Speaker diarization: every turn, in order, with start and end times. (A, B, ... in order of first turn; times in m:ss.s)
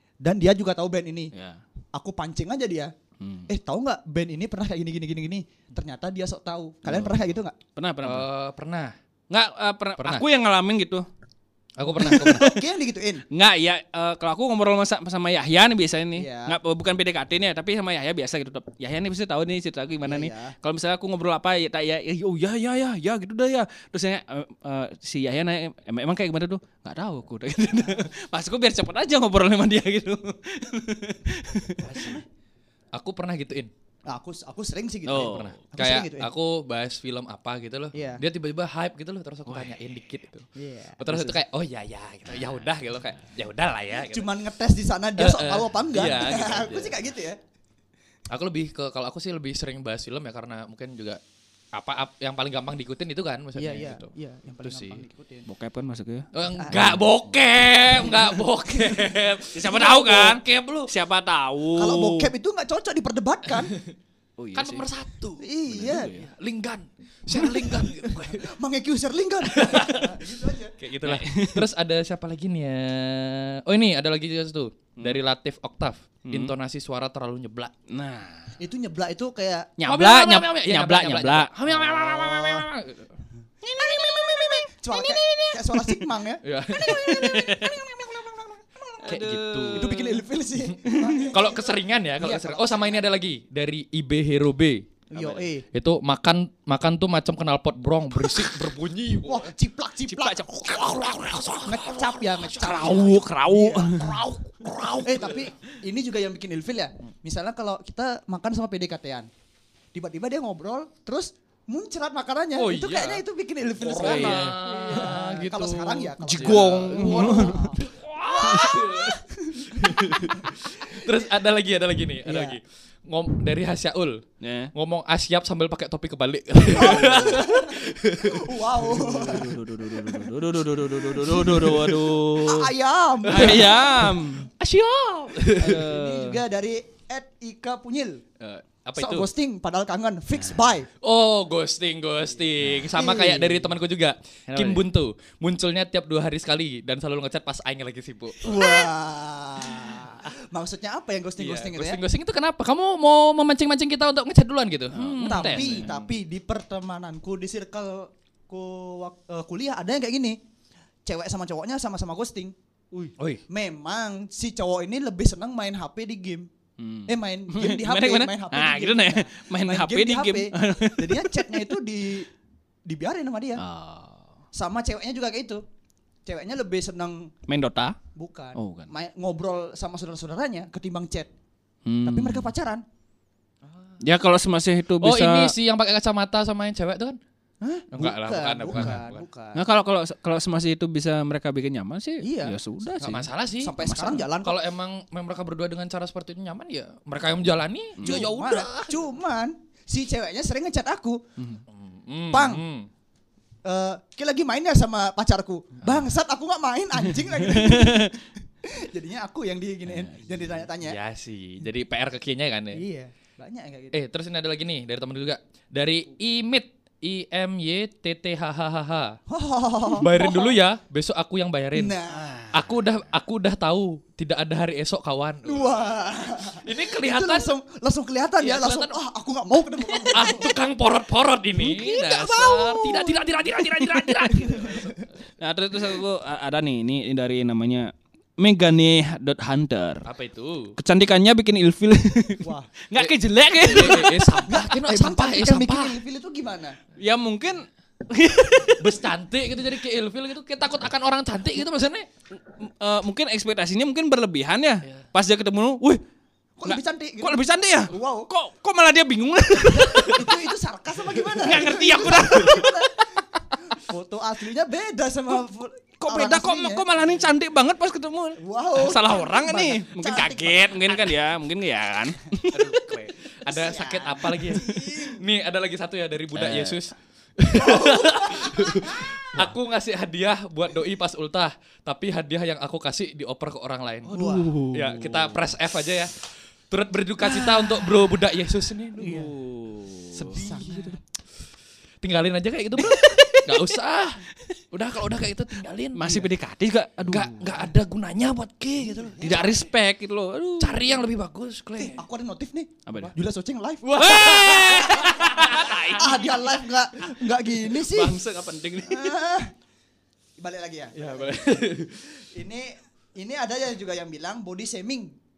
0:00.2-0:01.3 A
0:01.3-0:01.6 B
0:01.9-0:02.9 A
0:03.2-0:03.5 B
0:03.5-0:07.6 A
0:06.8-0:07.2 B
0:07.8-0:08.3 B
0:08.0-0:08.9 C
0:09.3-0:11.1 B
0:10.0-0:10.2 C
0:11.8-0:12.6 C
0:12.0-0:13.2 A
0:12.0-0:12.4 B
0:13.3-0:32.2 B
0:16.2-0:16.6 A
0:20.0-0:20.5 A
0:31.8-0:32.2 A
0:31.9-0:32.2 C
0:32.9-0:33.7 C
0:34.1-0:36.3 A
0:35.1-0:35.6 B
0:35.1-0:40.5 C
0:37.9-0:38.2 A
0:39.5-0:39.8 B
0:40.6-0:41.3 A
0:41.0-0:44.3 C
0:44.0-0:47.4 A
0:45.2-0:47.0 C
0:48.3-0:51.2 C
0:51.7-0:54.1 C
0:53.6-0:55.5 A
0:54.6-0:55.0 C
0:55.5-0:57.0 B
0:56.3-1:00.9 C
0:56.6-0:56.9 A
0:59.5-1:02.3 B
1:01.7-1:03.7 A
1:04.4-1:04.8 B
1:04.6-1:08.5 C
1:05.4-1:06.1 A
1:05.7-1:06.3 B
1:07.4-1:10.8 A
1:09.4-1:10.2 C
1:10.8-1:17.7 C
1:11.0-1:11.7 B
1:16.2-1:16.5 B
1:17.9-1:18.6 B
1:18.6-1:19.7 A
1:19.8-1:22.0 B
1:19.9-1:23.1 C
1:23.6-1:26.1 B
1:23.8-1:33.1 A
1:26.4-1:27.1 C
1:26.8-1:27.8 B
1:29.0-1:30.2 B
1:29.0-1:30.0 C
1:30.6-1:39.5 C
1:30.9-1:31.2 B
1:35.1-1:35.6 A
1:39.2-1:40.7 A
1:40.0-1:41.9 B
1:40.8-1:43.2 C
1:41.6-1:44.2 A
1:42.6-1:44.2 B
1:44.0-1:45.5 C
1:45.0-1:49.3 A
1:49.9-1:57.8 A
1:52.6-1:53.2 C
1:53.8-2:04.2 C
1:54.0-1:55.2 B
1:56.2-1:57.7 B
1:58.4-1:59.2 B
1:58.5-1:59.7 A
1:59.8-2:00.3 B
2:00.4-2:01.3 A
2:02.3-2:02.6 A
2:04.4-2:04.7 B
2:04.8-2:08.6 C
2:06.7-2:07.5 B
2:06.7-2:09.6 A
2:08.7-2:12.7 B
2:11.0-2:12.2 C
2:12.4-2:14.1 A
2:13.2-2:14.5 B
2:13.3-2:15.8 C
2:15.4-2:16.4 B
2:15.7-2:18.2 A
2:18.4-2:19.3 C
2:19.0-2:20.9 A
2:21.0-2:28.4 C
2:22.9-2:23.7 A
2:24.5-2:24.8 B
2:28.4-2:32.0 A
2:31.4-2:36.0 C
2:34.9-2:36.0 B
2:35.2-2:40.4 A
2:41.1-2:46.5 A
2:46.8-2:51.8 B
2:47.1-2:52.3 A
2:52.9-2:53.6 A
2:53.6-2:54.3 B
2:54.5-2:55.6 A
2:56.3-2:57.3 A
2:57.5-2:58.0 B
2:58.2-3:01.3 A
2:58.6-2:58.9 B
3:01.9-3:02.5 B
3:02.0-3:02.8 A
3:03.7-3:04.0 C
3:04.0-3:05.5 B
3:05.0-3:07.2 C
3:07.6-3:09.6 A
3:07.9-3:09.2 C
3:09.6-3:13.3 B
3:12.2-3:14.6 A
3:13.0-3:19.0 C
3:18.0-3:18.3 B
3:18.0-3:21.2 A
3:21.7-3:22.9 C
3:22.3-3:22.6 A
3:23.6-3:31.0 A
3:27.4-3:28.1 B
3:30.8-3:32.8 C
3:32.7-3:34.0 A
3:33.9-3:39.2 C
3:39.3-3:40.6 A
3:40.0-3:42.0 C
3:41.7-3:42.5 A
3:42.5-3:45.9 C
3:45.5-3:50.5 A
3:46.6-3:47.5 C
3:48.4-3:49.0 C
3:50.1-3:55.1 C
3:51.6-4:00.1 B
4:00.1-4:00.8 C
4:00.8-4:04.4 B
4:02.4-4:02.7 A
4:03.0-4:06.0 C
4:03.7-4:06.8 A
4:07.0-4:09.0 B
4:08.8-4:12.0 C
4:12.6-4:16.0 B
4:16.6-4:18.3 A
4:16.6-4:20.4 B
4:19.6-4:23.1 A
4:21.4-4:23.2 B
4:23.7-4:27.2 A
4:26.0-4:32.8 B
4:28.4-4:31.1 A
4:32.5-4:49.3 C
4:33.5-4:35.3 A
4:36.4-4:36.8 B
4:37.5-4:39.4 A
4:44.1-4:45.4 B
4:44.1-4:44.6 A
4:47.4-4:47.7 B
4:49.0-4:50.4 B
4:49.0-4:49.3 A
4:50.3-4:51.0 A
4:50.4-4:50.9 C
4:52.0-4:56.3 C
4:52.8-4:53.7 B
4:56.0-4:57.6 B
4:57.1-4:59.7 C
4:58.8-4:59.4 A
4:59.2-5:00.8 B
5:00.6-5:02.0 C
5:01.8-5:04.2 A
5:02.9-5:03.1 B
5:03.8-5:05.9 C
5:04.0-5:06.3 B
5:05.2-5:08.2 A
5:07.5-5:09.2 B
5:08.8-5:09.5 A
5:10.4-5:11.6 A
5:11.0-5:12.1 C
5:12.2-5:15.1 A